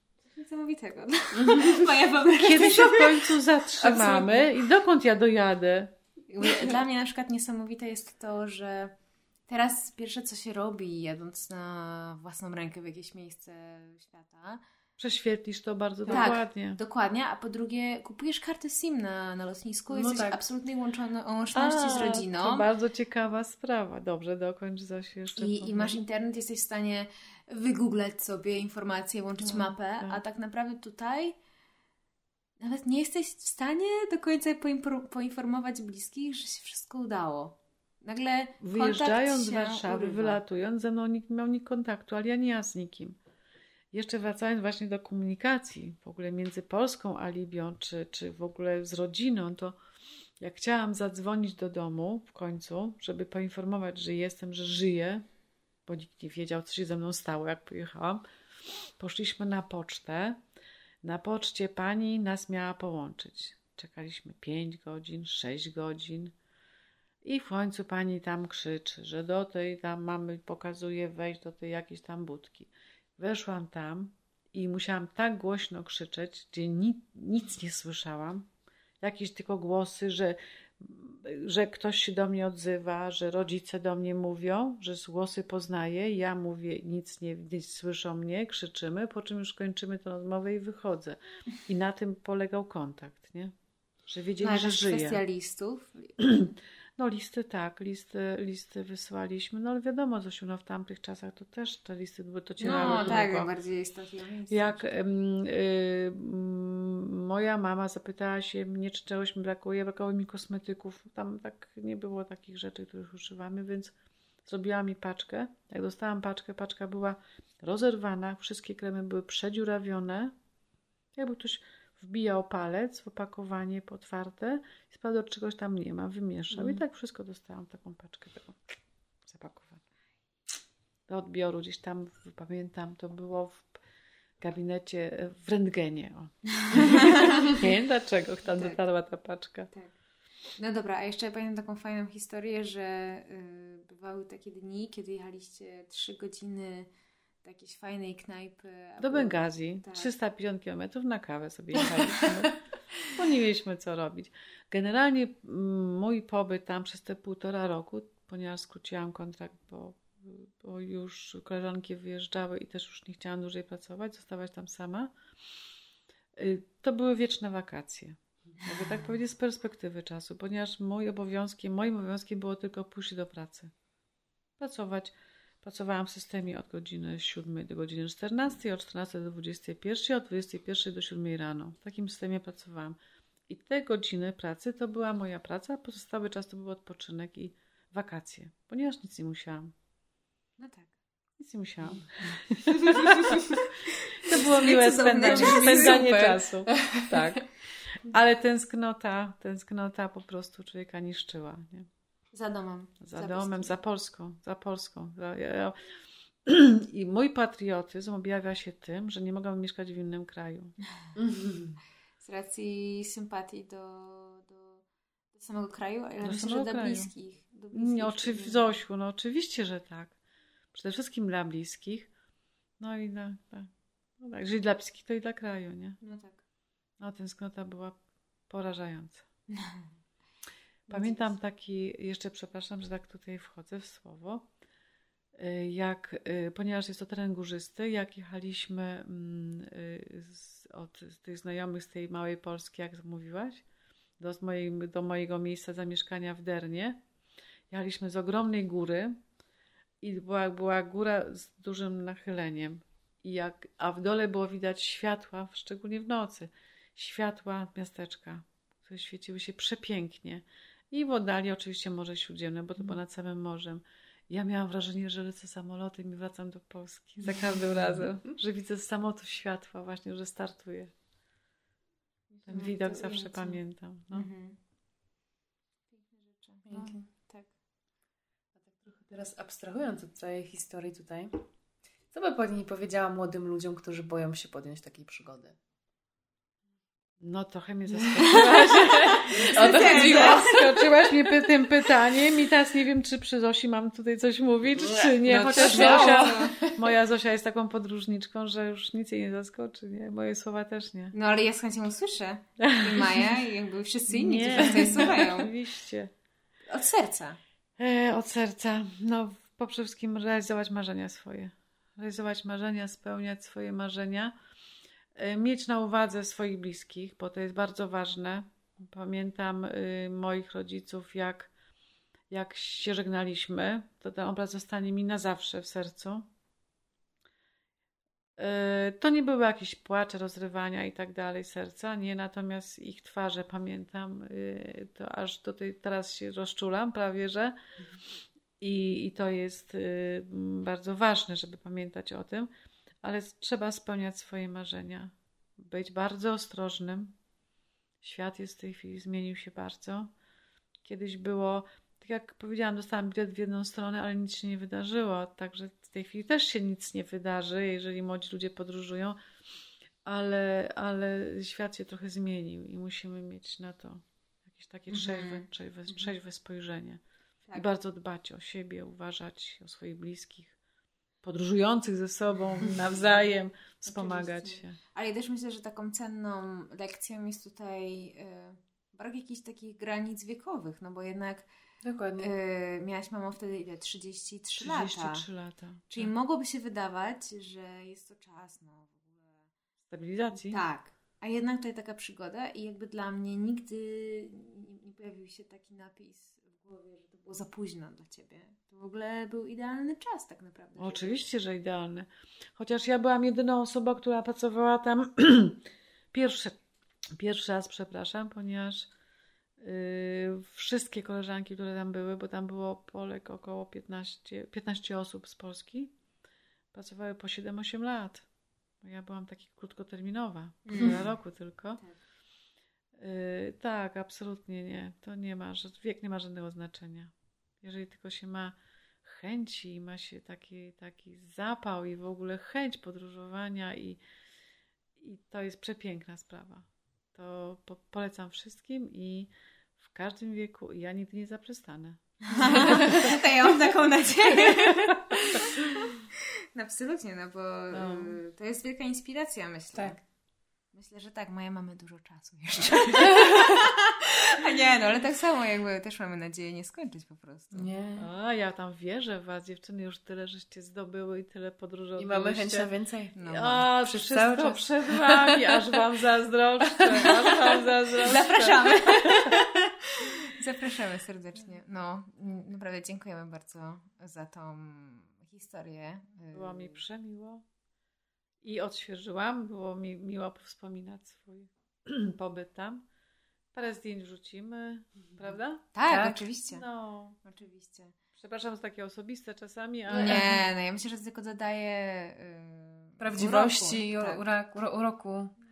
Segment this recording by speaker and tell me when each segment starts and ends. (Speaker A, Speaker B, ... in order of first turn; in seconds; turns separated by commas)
Speaker A: 0.3-4.4, Speaker B: 2.3-5.9, Speaker A: 6.3-8.9, Speaker A: 9.5-14.6, Speaker B: 15.0-16.8, Speaker C: 16.1-16.4, Speaker A: 16.1-22.7, Speaker C: 19.9-20.4, Speaker B: 21.5-25.9, Speaker A: 25.3-31.4, Speaker B: 29.4-30.2, Speaker A: 32.6-40.4, Speaker B: 38.6-43.2, Speaker B: 43.9-49.8, Speaker B: 50.4-55.2, Speaker B: 55.9-58.2, Speaker B: 59.0-60.4, Speaker B: 61.0-66.3, Speaker B: 67.2-78.5, Speaker B: 79.0-93.5, Speaker B: 94.1-95.2, Speaker A: 94.4-96.1, Speaker B: 96.2-103.5, Speaker A: 102.6-104.9, Speaker C: 102.7-103.2, Speaker B: 104.5-120.3, Speaker B: 121.1-128.6, Speaker B: 129.2-129.8, Speaker B: 131.1-133.8, Speaker B: 134.4-139.7, Speaker A: 136.6-137.6, Speaker A: 138.5-138.8, Speaker A: 140.6-146.9, Speaker A: 147.4-150.1, Speaker B: 149.0-165.1, Speaker B: 166.3-173.7, Speaker B: 174.6-189.7, Speaker A: 190.6-190.9, Speaker B: 191.4-201.9, Speaker A: 192.7-196.3, Speaker C: 195.2-197.2, Speaker A: 202.3-203.8, Speaker B: 203.0-205.8, Speaker B: 206.4-210.7, Speaker C: 211.2-211.8, Speaker A: 212.2-218.8, Speaker B: 216.2-217.1, Speaker B: 217.7-220.2, Speaker B: 220.7-222.1, Speaker B: 222.8-226.0, Speaker A: 226.0-226.4, Speaker B: 227.0-228.0, Speaker B: 228.5-229.2, Speaker A: 229.5-229.9, Speaker B: 230.9-234.5, Speaker A: 230.9-231.3, Speaker B: 235.3-243.6, Speaker B: 244.2-247.0, Speaker B: 247.7-249.1, Speaker B: 250.0-270.9, Speaker A: 272.4-274.6, Speaker B: 272.5-274.3, Speaker A: 275.9-277.5, Speaker C: 276.7-277.0, Speaker C: 278.6-281.4, Speaker C: 282.1-285.5, Speaker B: 287.2-301.1, Speaker C: 288.3-291.1, Speaker A: 288.3-290.5, Speaker C: 294.8-296.8, Speaker A: 295.3-296.6, Speaker A: 301.1-305.5, Speaker B: 302.6-303.3, Speaker B: 304.1-306.1, Speaker A: 306.7-307.4, Speaker B: 307.8-314.3, Speaker B: 315.1-321.5, Speaker B: 322.3-326.2, Speaker B: 328.4-337.5, Speaker B: 338.6-342.5, Speaker B: 343.0-347.1, Speaker B: 348.0-350.1, Speaker B: 350.8-359.2, Speaker B: 360.0-367.0, Speaker A: 365.0-365.4, Speaker B: 367.5-370.6, Speaker B: 371.2-374.8, Speaker A: 373.9-381.5, Speaker C: 381.8-382.3, Speaker A: 382.2-385.2, Speaker B: 384.6-386.1, Speaker A: 385.9-389.5, Speaker B: 389.9-390.6, Speaker A: 390.4-401.2, Speaker B: 400.8-406.6, Speaker B: 407.1-408.9, Speaker B: 409.6-415.9, Speaker B: 416.7-418.3, Speaker B: 418.8-421.8, Speaker A: 420.6-421.0, Speaker B: 422.9-434.0, Speaker B: 435.0-443.2, Speaker A: 442.2-450.0, Speaker B: 444.4-445.6, Speaker B: 447.7-448.2, Speaker A: 450.7-457.7, Speaker C: 457.5-458.1, Speaker B: 458.0-462.7, Speaker C: 462.0-463.1, Speaker A: 463.1-463.7, Speaker B: 463.2-469.4, Speaker C: 463.8-465.8, Speaker C: 466.6-467.6, Speaker A: 467.9-476.8, Speaker B: 476.3-477.4, Speaker B: 478.4-482.8, Speaker B: 483.5-487.2, Speaker A: 485.7-486.6, Speaker C: 485.9-486.2, Speaker A: 487.2-487.9, Speaker B: 488.1-490.3, Speaker A: 489.9-494.2, Speaker C: 489.9-490.4, Speaker C: 493.0-495.3